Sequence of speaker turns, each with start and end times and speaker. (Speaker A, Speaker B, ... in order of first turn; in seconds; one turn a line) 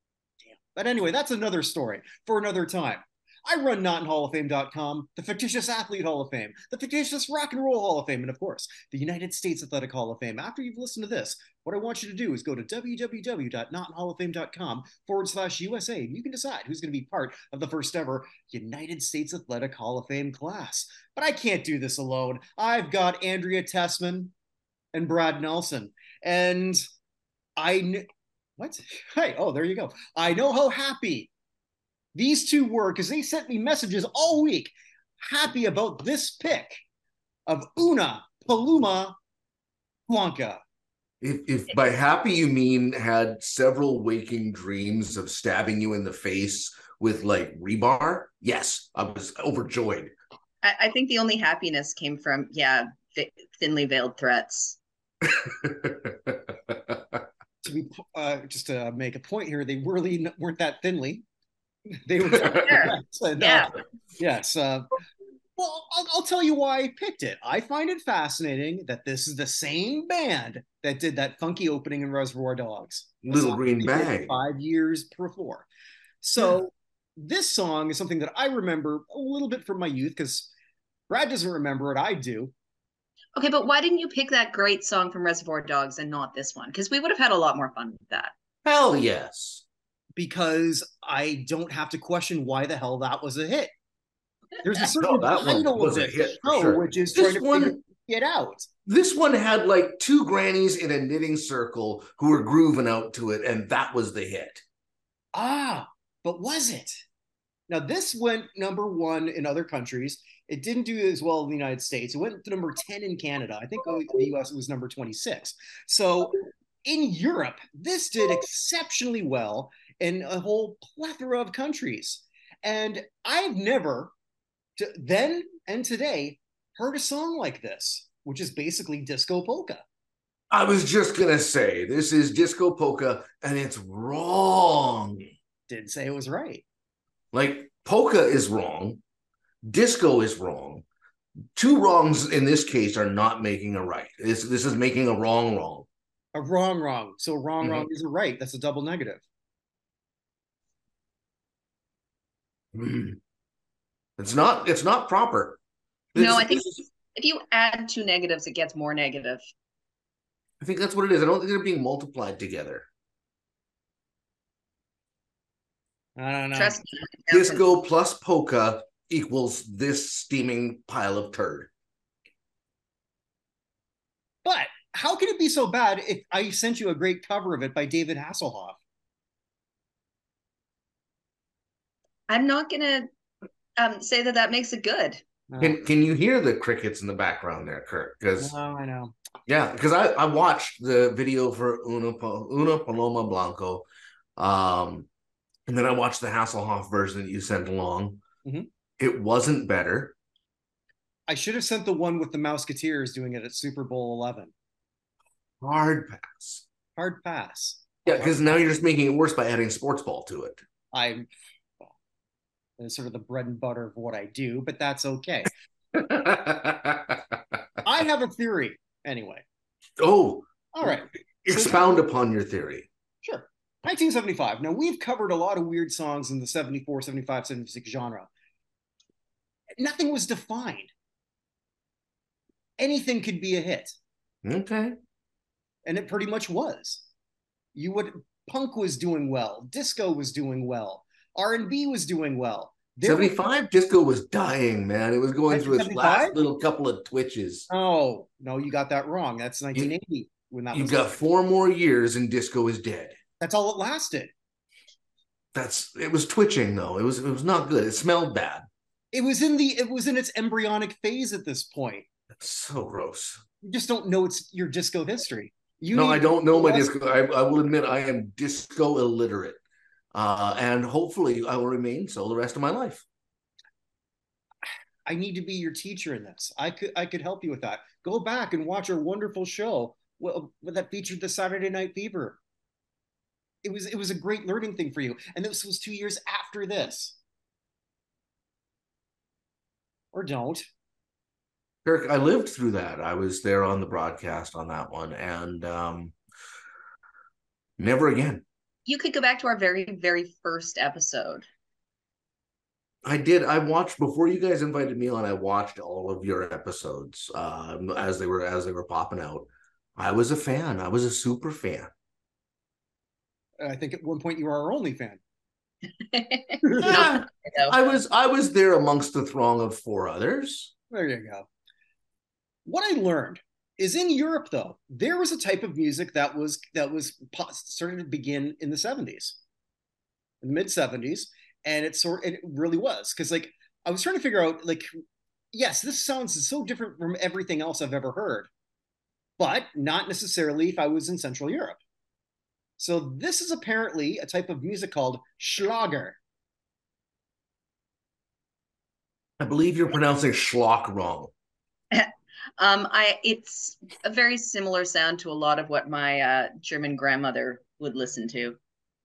Speaker A: 0.4-24.3
Speaker A: 24.9-26.8
Speaker A: 27.6-28.1
Speaker A: 28.6-31.3
Speaker A: 32.1-36.8
Speaker A: 37.5-39.1
Speaker A: 40.1-40.6
Speaker B: 41.2-50.1
Speaker C: 50.6-54.8
Speaker B: 55.2-57.2
Speaker A: 57.6-61.2
Speaker A: 61.9-65.0
Speaker B: 62.3-62.7
Speaker C: 62.5-63.7
Speaker A: 65.6-75.7
Speaker B: 73.2-74.3
Speaker A: 76.2-80.5
Speaker A: 81.1-82.5
Speaker C: 83.4-88.3
Speaker B: 88.7-89.6
Speaker A: 90.2-93.7
Speaker A: 94.6-98.7
Speaker B: 94.9-97.8
Speaker B: 98.9-104.6
Speaker A: 105.3-107.0
Speaker A: 107.7-124.1
Speaker A: 124.8-129.8
Speaker B: 130.5-135.3
Speaker A: 135.7-136.6
Speaker B: 137.3-139.0
Speaker B: 139.6-140.8
Speaker B: 141.6-145.9
Speaker A: 146.3-149.2
Speaker B: 147.6-147.9
Speaker B: 152.7-153.2
Speaker B: 154.2-155.6
Speaker B: 156.2-156.8
Speaker C: 156.2-159.5
Speaker B: 160.6-162.9
Speaker A: 166.2-166.8
Speaker C: 166.6-167.8
Speaker B: 167.3-171.7
Speaker A: 174.4-178.8
Speaker C: 182.3-183.1
Speaker C: 183.8-185.2
Speaker A: 185.5-185.9
Speaker B: 185.6-188.5
Speaker A: 188.4-189.2
Speaker B: 189.5-193.8
Speaker B: 194.4-195.1
Speaker B: 195.7-198.2
Speaker B: 199.0-200.2
Speaker A: 201.3-204.5
Speaker B: 205.6-206.6
Speaker A: 207.0-208.8
Speaker B: 208.1-210.6
Speaker A: 210.9-211.3
Speaker A: 212.8-215.5
Speaker B: 215.9-217.6
Speaker A: 217.8-219.4
Speaker B: 220.0-222.9
Speaker A: 220.7-222.0
Speaker A: 223.2-228.3
Speaker A: 229.8-230.9
Speaker A: 232.8-234.0
Speaker B: 234.4-235.0
Speaker A: 235.9-237.0
Speaker A: 237.8-243.3
Speaker B: 243.0-247.7
Speaker A: 245.5-246.4
Speaker A: 247.7-251.1
Speaker B: 250.7-253.2
Speaker A: 253.4-254.3
Speaker B: 255.5-258.6
Speaker A: 259.1-262.1
Speaker B: 262.4-263.4
Speaker A: 263.6-266.9
Speaker B: 265.9-269.6
Speaker B: 270.1-273.1
Speaker A: 275.1-282.4
Speaker A: 283.6-287.2
Speaker A: 290.1-290.6
Speaker B: 291.9-296.1
Speaker B: 297.8-298.4
Speaker C: 298.9-301.4
Speaker B: 303.0-311.9
Speaker A: 313.6-315.2
Speaker C: 316.1-317.8
Speaker A: 316.6-317.1
Speaker B: 316.8-320.7
Speaker A: 320.9-321.5
Speaker A: 322.7-329.4
Speaker A: 330.4-334.9
Speaker A: 335.5-338.5
Speaker A: 339.4-341.8
Speaker A: 342.8-346.2
Speaker B: 349.4-351.3
Speaker C: 351.9-358.6